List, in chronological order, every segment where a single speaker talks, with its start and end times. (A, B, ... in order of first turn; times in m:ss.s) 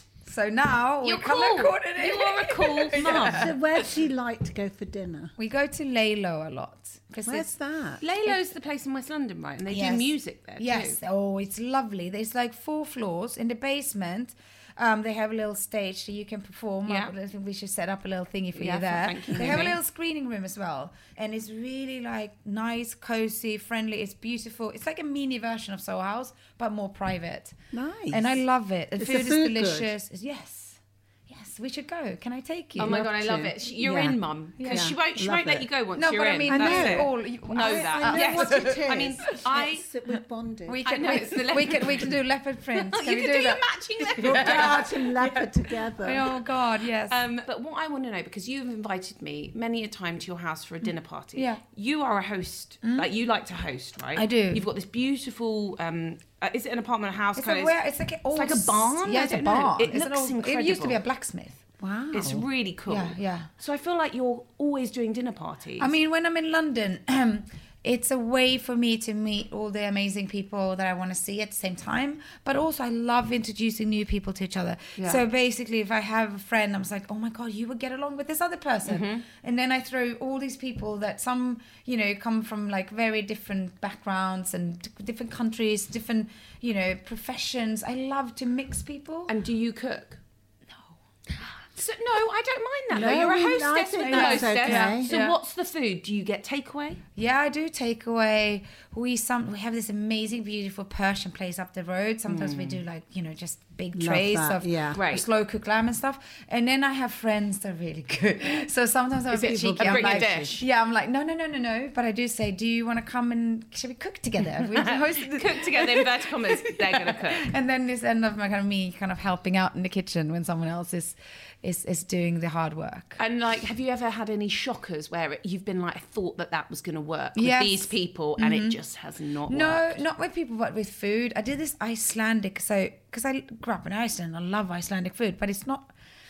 0:00.2-0:03.8 A
0:01.0-0:03.5 B
0:03.0-0:05.3 C
0:05.4-0:07.6 A
0:07.2-0:08.0 C
0:08.0-0:11.0 B
0:09.7-0:27.6 A
0:16.9-0:17.1 B
0:18.5-0:19.8 B
0:27.7-0:28.4 C
0:28.1-0:33.0 A
0:29.0-0:29.9 C
0:32.8-0:35.7 C
0:32.8-0:39.8 B
0:34.6-0:34.9 A
0:36.0-0:39.2 A
0:36.5-0:41.2 C
0:40.7-0:45.5 A
0:40.8-0:42.1 B
0:42.8-0:45.4 B
0:44.2-0:46.3 C
0:46.0-0:47.2 A
0:47.1-0:57.7 B
0:51.4-0:51.6 A
0:54.2-0:54.6 A
0:57.4-1:01.7 A
0:58.3-1:01.0 B
1:01.8-1:02.5 C
1:02.1-1:05.9 B
1:02.9-1:03.5 A
1:05.8-1:29.3 A
1:15.0-1:15.2 B
1:18.8-1:19.3 B
1:29.3-1:30.2 B
1:31.8-1:37.0 B
1:32.9-1:35.1 C
1:33.0-1:33.4 A
1:34.0-1:35.4 A
1:37.2-2:03.2 A
1:42.3-1:42.8 B
1:43.9-1:45.0 C
1:45.0-1:45.3 B
1:49.3-1:50.6 B
1:49.4-1:50.6 C
1:54.7-1:57.5 B
2:03.2-2:10.0 B
2:07.4-2:08.8 A
2:09.5-2:15.9 A